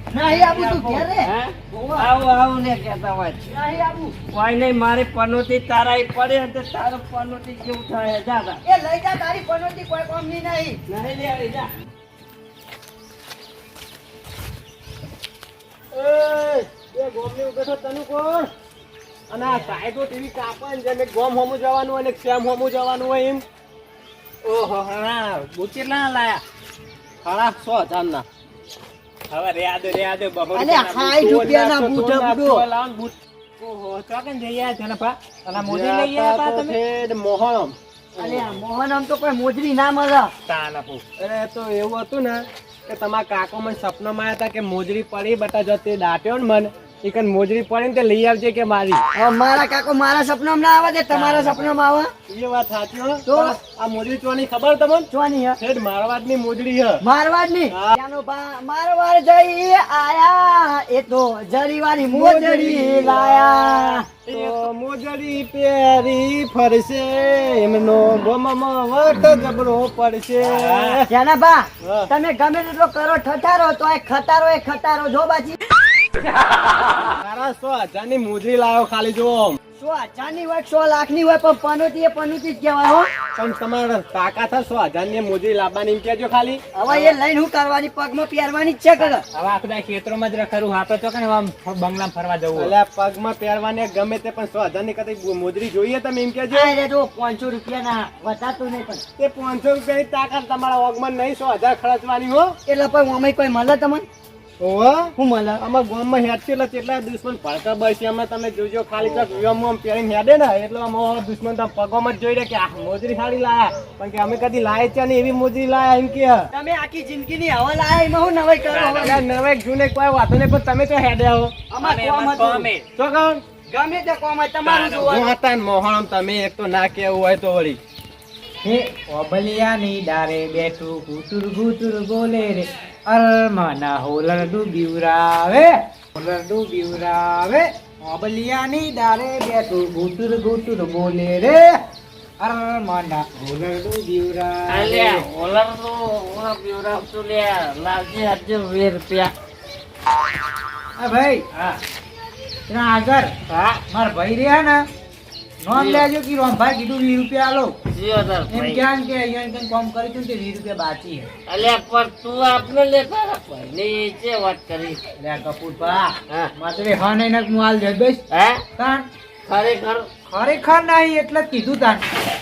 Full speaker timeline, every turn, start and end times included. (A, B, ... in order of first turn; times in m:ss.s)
0:00.1-0:02.1 A
0:00.4-0:01.0 B
0:01.2-0:03.5 C
0:03.5-0:04.2 A
0:04.3-0:08.6 C
0:08.6-0:10.8 A
0:10.9-0:11.7 C
0:15.9-0:18.5 D
0:19.3-0:23.4 D
0:19.4-0:19.7 E
0:24.4-0:26.4 E
0:27.2-0:28.2 D
0:29.3-0:31.2 E
0:30.5-0:32.6 A
0:31.1-0:32.5 D
0:32.4-0:36.8 E
0:35.5-0:38.5 D
0:38.2-0:40.3 A
0:40.4-0:41.0 E
0:41.2-0:49.0 D
0:49.1-0:52.1 A
0:51.1-0:51.7 D
0:52.3-0:57.0 D
0:53.2-0:53.6 A
0:55.1-0:55.6 A
0:57.0-1:04.7 A
0:57.7-0:58.0 D
1:02.0-1:11.1 D
1:10.4-1:11.0 E
1:11.1-1:15.6 A
1:11.8-1:12.1 D
1:17.2-1:19.6 D
1:19.8-1:23.1 A
1:23.3-1:27.1 D
1:26.7-1:29.2 A
1:29.1-1:32.7 E
1:32.6-1:36.7 D
1:36.5-1:39.0 A
1:39.2-1:42.6 D
1:42.6-1:44.1 A
1:44.6-1:56.5 D
1:45.2-1:45.6 A
1:56.5-1:59.2 A
1:58.7-2:01.6 D
2:01.7-2:02.7 A
2:01.8-2:02.9 E
2:02.9-2:03.4 D
2:03.7-2:05.3 A
2:04.6-2:05.2 E
2:04.9-2:07.8 D
2:08.6-2:21.8 B
2:22.4-2:25.2 B
2:24.7-2:29.3 C
2:31.0-2:31.4 B
2:31.5-2:31.8 C
2:32.7-2:33.3 B
2:33.5-2:33.8 C
2:33.9-2:34.8 B
2:35.6-2:37.8 B
2:35.7-2:36.1 C
2:37.9-2:38.8 C
2:38.5-2:41.3 B
2:41.5-2:45.0 C
2:45.2-2:48.2 B
2:48.3-2:48.6 C
2:48.8-2:49.1 B
2:49.4-2:50.1 C
2:50.3-2:52.0 B